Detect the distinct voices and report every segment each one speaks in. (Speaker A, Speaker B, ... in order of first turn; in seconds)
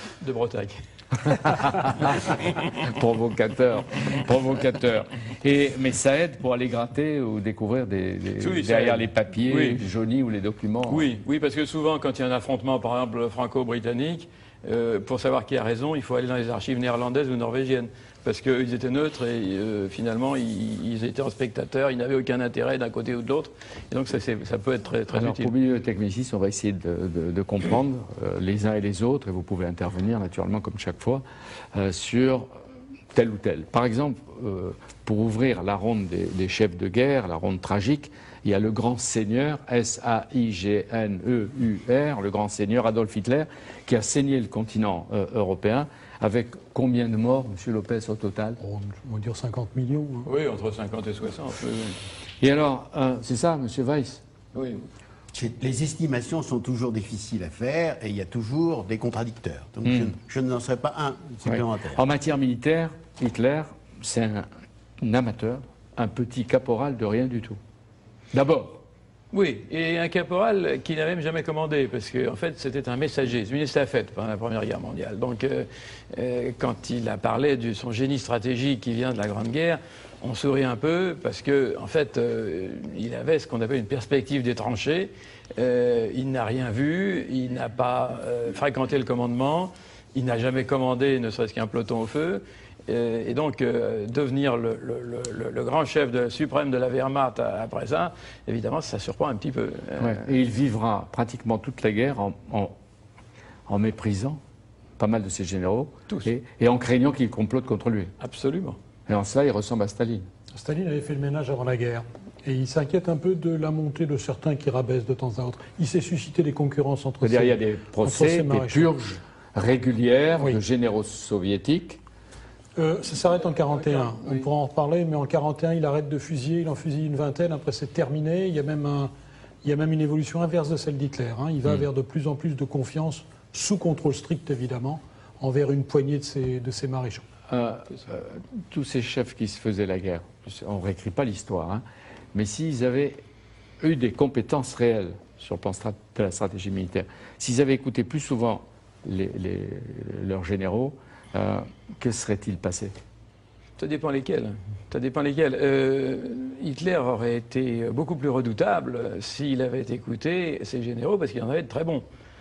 Speaker A: 0.2-1.4, 8.4-9.8, 10.9-25.5, 50.3-52.0, 69.3-100.3, 108.2-108.8, 123.7-124.5, 153.8-162.0
Speaker B: 1.3-11.1, 25.1-32.5, 33.1-48.6, 52.4-54.2, 61.5-64.5, 65.0-67.6, 68.3-68.8, 100.0-102.7, 103.7-104.4, 105.0-108.1, 109.1-110.3, 117.2-122.0, 137.5-141.8, 142.3-143.2, 143.8-152.9
Speaker C: 48.6-50.3, 110.5-118.9, 122.8-129.1, 129.6-137.3
Speaker D: 55.3-62.0